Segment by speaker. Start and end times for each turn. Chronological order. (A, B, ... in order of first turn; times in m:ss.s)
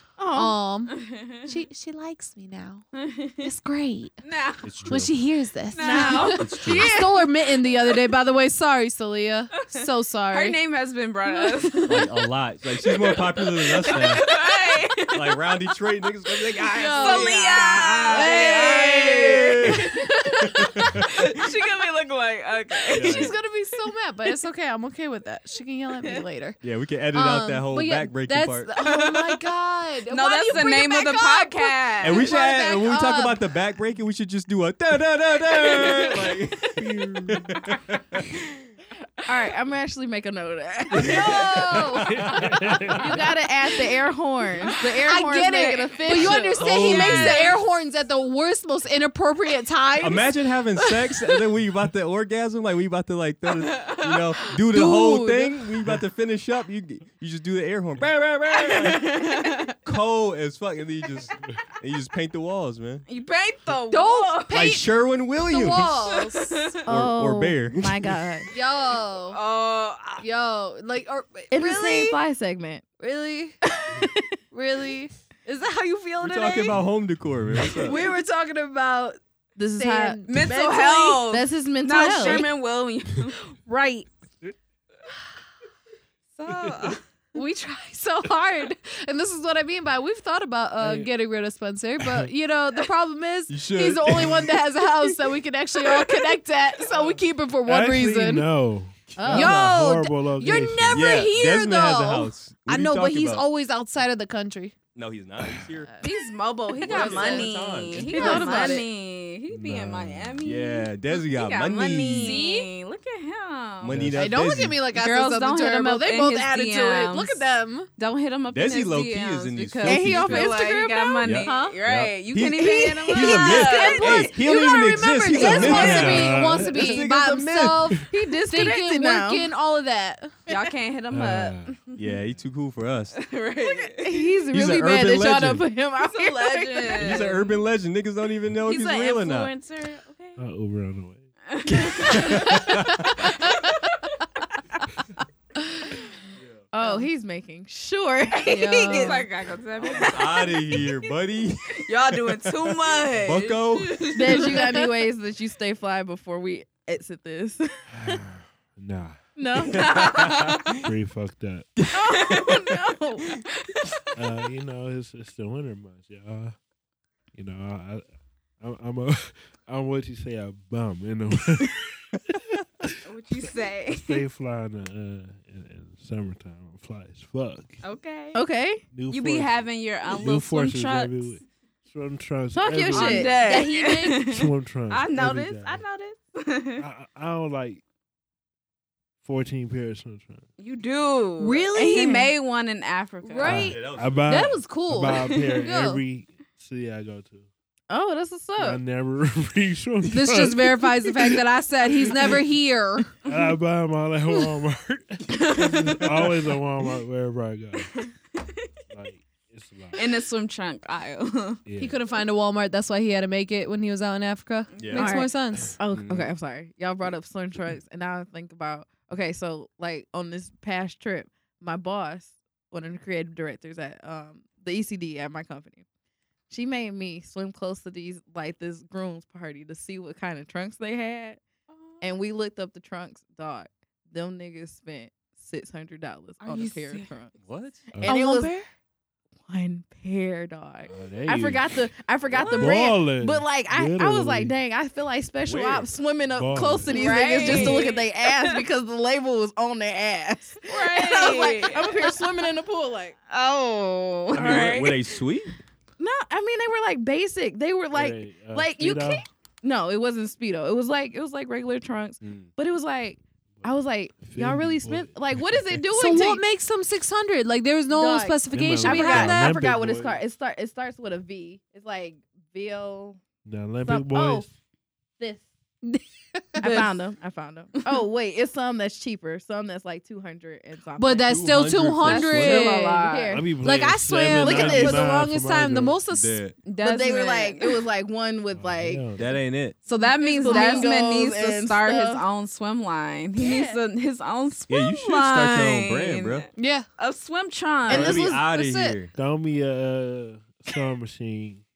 0:00.2-0:00.6 A
0:00.3-0:02.8 B
0:00.9-0:01.5 C
0:03.0-0:03.5 C
0:03.4-0:04.2 B
0:04.2-0:04.7 C
0:04.6-0:05.1 D
0:04.8-0:10.6 B
0:05.7-0:08.0 C
0:05.8-0:06.4 A
0:06.4-0:07.0 D
0:09.7-0:12.1 C
0:11.4-0:12.0 B
0:11.9-0:14.2 D
0:12.8-0:15.4 C
0:15.0-0:19.8 D
0:16.6-0:19.1 B
0:16.9-0:20.1 C
0:18.3-0:18.6 A
0:19.7-0:20.9 B
0:20.4-0:21.3 D
0:20.8-0:23.3 C
0:22.9-0:26.6 B
0:22.9-0:23.4 D
0:26.6-0:28.7 D
0:27.1-0:33.4 B
0:28.8-0:29.4 C
0:30.1-0:32.3 C
0:32.0-0:38.2 D
0:36.8-0:37.6 E
0:39.2-0:41.9 A
0:41.0-0:42.2 D
0:41.0-0:43.2 B
0:42.0-0:43.2 E
0:42.8-0:46.8 A
0:45.0-0:50.3 B
0:46.1-0:47.6 C
0:46.3-0:47.5 D
0:50.0-0:59.3 D
0:53.7-0:54.2 C
0:54.7-0:55.6 B
0:58.5-0:59.7 C
0:59.8-1:03.0 D
1:03.1-1:04.5 C
1:03.9-1:06.8 B
1:04.5-1:06.0 D
1:06.1-1:06.8 C
1:06.8-1:08.2 D
1:06.8-1:08.5 A
1:08.5-1:09.4 B
1:09.3-1:10.2 C
1:10.2-1:12.2 B
1:11.5-1:12.8 A
1:13.0-1:13.6 B
1:13.9-1:14.2 A
1:14.5-1:16.8 B
1:16.2-1:18.0 D
1:17.8-1:18.2 B
1:17.9-1:18.2 A
1:18.9-1:19.1 B
1:19.6-1:22.5 A
1:19.7-1:21.0 B
1:20.2-1:24.1 C
1:26.4-1:27.0 C
1:27.3-1:38.5 B
1:30.8-1:31.1 E
1:32.0-1:32.3 E
1:33.5-1:34.6 D
1:37.6-1:41.2 E
1:39.1-1:39.8 D
1:39.2-1:39.6 A
1:39.3-1:44.8 B
1:40.9-1:43.4 D
1:44.9-1:45.9 D
1:46.0-1:54.0 C
1:46.8-1:47.5 B
1:46.8-1:48.4 D
1:46.9-1:48.8 A
1:48.1-1:48.8 B
1:49.5-1:50.4 E
1:50.4-1:52.4 D
1:52.1-1:52.7 B
1:53.8-1:54.8 D
1:53.9-1:54.4 E
1:54.1-1:57.9 B
1:54.9-1:57.4 C
1:58.0-2:04.3 C
1:58.5-2:00.6 D
1:59.8-2:01.7 A
2:01.2-2:08.0 D
2:01.4-2:01.7 B
2:02.6-2:03.3 A
2:03.1-2:10.3 B
2:05.4-2:06.0 A
2:05.4-2:05.8 C
2:05.5-2:07.0 E
2:08.1-2:09.5 A
2:10.5-2:12.1 C
2:11.1-2:11.7 E
2:12.0-2:13.2 D
2:13.1-2:14.2 C
2:13.6-2:17.4 A
2:14.5-2:15.7 D
2:16.0-2:17.5 C
2:17.0-2:19.5 D
2:18.6-2:20.4 C
2:20.4-2:21.3 E
2:21.5-2:22.6 C
2:21.8-2:23.1 D
2:23.2-2:24.1 C
2:26.7-2:29.2 A
2:28.5-2:29.2 B
2:28.9-2:30.6 C
2:29.8-2:34.3 D
2:31.7-2:34.8 C
2:34.1-2:38.2 A
2:37.9-2:39.2 E
2:39.4-2:40.2 A
2:39.7-2:40.8 D
2:39.7-2:40.8 C
2:40.7-2:41.7 E
2:41.8-2:42.6 D
2:41.9-2:43.3 A
2:42.2-2:42.6 C
2:43.6-2:44.1 C
2:44.1-2:46.6 E
2:47.3-2:48.0 E
2:48.6-2:53.0 E
2:53.0-2:54.2 C
2:53.9-2:57.8 E
2:57.8-2:58.4 C
2:58.3-2:58.8 A
2:58.9-3:03.4 E
2:59.1-3:01.4 C
3:02.5-3:03.5 A
3:02.9-3:06.8 C
3:03.2-3:04.3 B
3:04.2-3:05.8 E
3:06.8-3:07.8 E
3:09.2-3:10.5 E
3:10.6-3:13.6 C
3:11.4-3:12.3 B
3:13.2-3:16.0 B
3:13.4-3:17.5 E
3:13.4-3:14.5 D
3:17.9-3:18.8 A
3:18.6-3:21.4 E
3:20.0-3:23.2 B
3:22.0-3:22.4 E
3:23.2-3:28.0 E
3:25.3-3:26.0 C
3:28.0-3:28.6 C
3:28.9-3:30.1 E
3:29.9-3:31.6 C
3:31.6-3:32.0 E
3:31.8-3:35.8 B
3:34.8-3:35.0 C
3:34.8-3:35.1 D
3:34.9-3:45.8 A
3:35.9-3:36.3 D
3:46.5-3:51.4 A
3:51.7-3:52.1 C
3:52.0-3:57.3 A
3:56.4-3:57.1 C
3:57.4-3:57.9 D
3:57.9-3:58.2 E
3:58.0-3:58.6 A
3:58.0-3:58.6 B
3:59.4-4:13.2 A
4:00.9-4:01.8 E
4:02.4-4:04.5 E
4:02.4-4:02.7 C
4:05.4-4:05.9 D
4:06.3-4:07.8 E
4:06.9-4:08.5 C
4:10.6-4:12.2 C
4:13.3-4:15.1 C
4:14.3-4:15.5 D
4:14.4-4:14.8 E
4:16.0-4:26.4 A
4:17.9-4:19.2 E
4:22.2-4:22.5 D
4:24.2-4:25.8 E
4:25.9-4:29.6 B
4:27.9-4:33.2 A
4:28.5-4:30.2 E
4:33.4-4:34.5 E
4:33.8-4:34.5 A
4:35.2-4:35.5 A
4:35.8-4:36.9 B
4:36.6-4:41.4 A
4:41.0-4:46.4 B
4:41.3-4:42.7 D
4:42.0-4:43.3 C
4:42.9-4:43.5 A
4:43.3-4:46.0 E
4:44.4-4:45.1 A
4:46.1-4:46.6 D
4:46.6-4:47.8 C
4:46.8-4:49.1 A
4:48.5-4:49.4 E
4:49.2-4:49.8 D
4:49.8-4:58.2 C
4:49.9-4:50.9 B
4:50.2-4:52.2 A
4:53.4-4:53.8 A
4:54.7-4:56.5 D
4:56.6-4:56.9 B
4:57.9-4:59.1 D
4:57.9-4:59.0 B
4:57.9-4:58.4 A
4:59.1-5:01.6 E